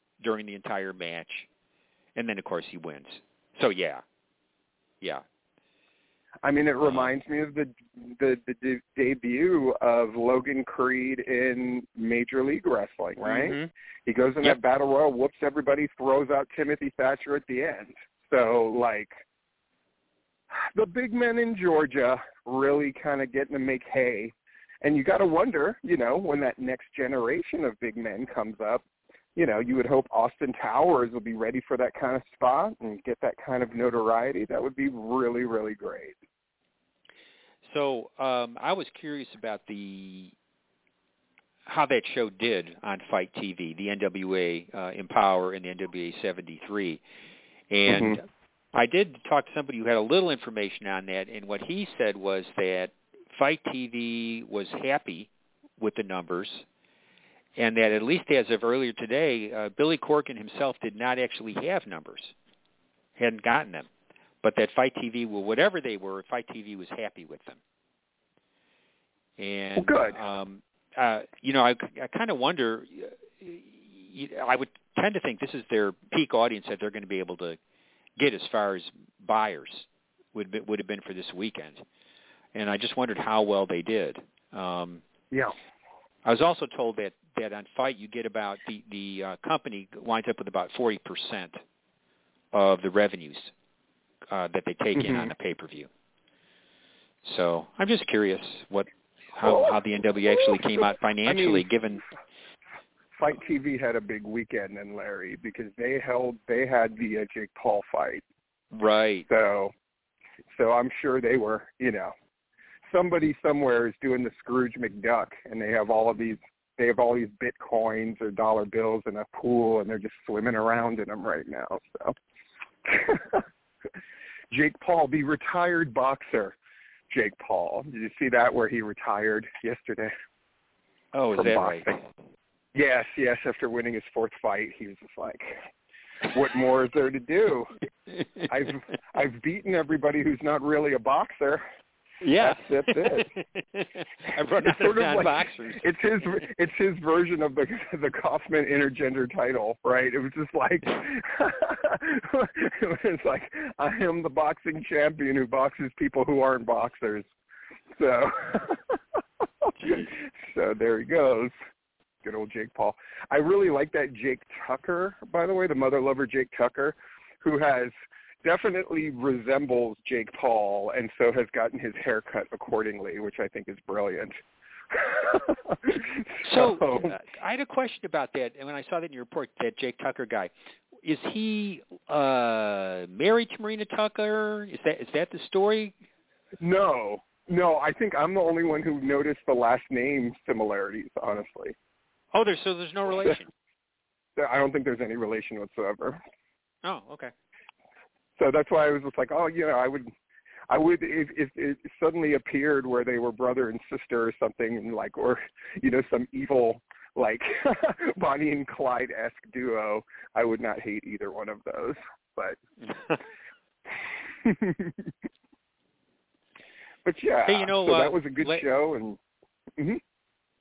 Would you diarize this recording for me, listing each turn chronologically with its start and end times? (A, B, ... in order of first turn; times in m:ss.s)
0:00.2-0:01.5 A
0:02.2-0:04.0 A
0:06.4-0:19.2 B
0:13.2-0:13.7 A
0:20.5-0:28.8 B
0:29.4-0:36.2 B
0:37.6-0:40.3 A
0:41.7-0:47.0 A
0:47.7-0:56.6 A
0:47.9-0:48.2 B
0:57.6-1:02.3 A
1:03.2-1:03.9 A
1:04.4-1:07.6 A
1:09.4-1:17.6 A
1:09.8-1:10.2 B
1:18.2-1:21.8 A
1:22.6-1:25.0 A
1:26.2-1:31.6 A
1:32.5-1:33.5 A
1:34.3-1:35.9 A
1:35.0-1:35.3 B
1:37.2-1:42.0 A
1:39.4-1:41.7 B
1:43.2-1:48.2 B
1:48.7-1:49.3 A
1:49.3-1:49.7 B
1:50.5-1:52.1 B
1:52.9-2:02.2 B
2:02.8-2:03.4 B
2:04.5-2:06.6 B
2:07.1-2:10.1 B
2:11.1-2:12.0 A
2:11.3-2:11.9 B
2:12.8-2:15.6 B
2:16.3-2:17.7 B
2:18.5-2:21.6 B
2:22.2-2:26.4 A
2:22.4-2:23.3 B
2:24.5-2:37.3 B
2:38.0-2:38.8 B
2:39.6-2:41.5 B
2:42.2-2:54.4 B
2:54.9-2:57.1 B
2:56.4-3:00.5 A
3:01.0-3:05.9 A
3:06.6-3:11.8 B
3:12.3-3:13.5 A
3:14.4-3:16.2 B
3:16.8-3:17.3 A
3:18.4-3:20.1 B
3:20.7-3:32.6 B
3:34.4-3:35.1 B
3:37.0-3:39.2 B
3:37.4-3:38.7 A